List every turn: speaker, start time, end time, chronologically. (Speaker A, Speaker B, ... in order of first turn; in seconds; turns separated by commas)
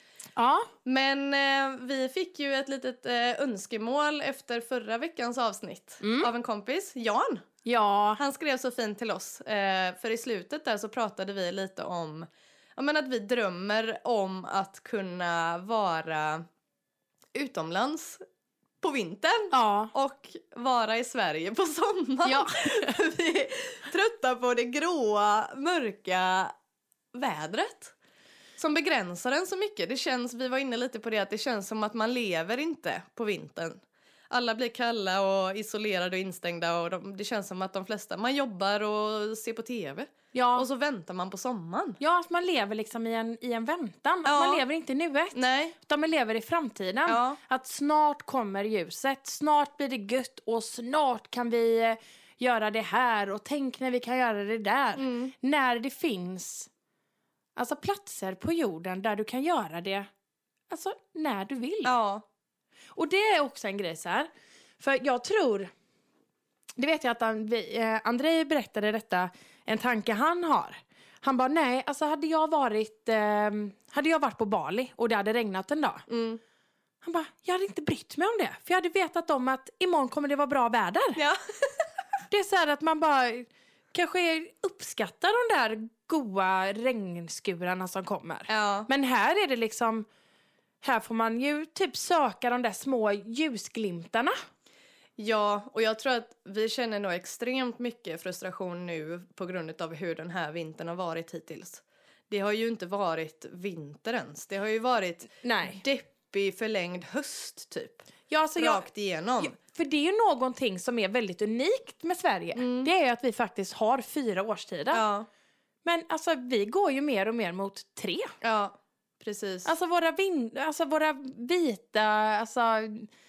Speaker A: 0.3-0.7, Speaker B: 0.8-7.5, Speaker A: 6.0-6.3, Speaker A: 7.6-8.2, Speaker B: 8.2-16.4, Speaker B: 17.3-18.2, Speaker B: 18.8-26.5, Speaker A: 19.5-19.9, Speaker A: 22.2-22.9, Speaker B: 27.1-27.9, Speaker B: 28.6-42.0, Speaker A: 40.3-40.7, Speaker A: 42.0-56.7, Speaker B: 44.2-44.6, Speaker B: 45.3-45.7, Speaker B: 47.1-47.4, Speaker B: 55.0-55.3, Speaker A: 57.5-60.1, Speaker A: 60.7-61.9, Speaker B: 61.8-62.2, Speaker A: 63.0-64.3, Speaker A: 64.8-65.7, Speaker A: 66.8-76.0, Speaker B: 76.1-76.4, Speaker A: 77.0-81.2, Speaker B: 81.2-81.8, Speaker A: 82.3-90.0, Speaker B: 88.5-88.9, Speaker A: 90.8-94.3, Speaker B: 95.2-109.5, Speaker A: 105.4-105.8, Speaker A: 108.3-108.8, Speaker A: 109.4-115.0, Speaker B: 112.5-112.9, Speaker B: 114.9-115.3, Speaker A: 115.8-118.3, Speaker B: 118.4-119.7, Speaker A: 119.6-123.1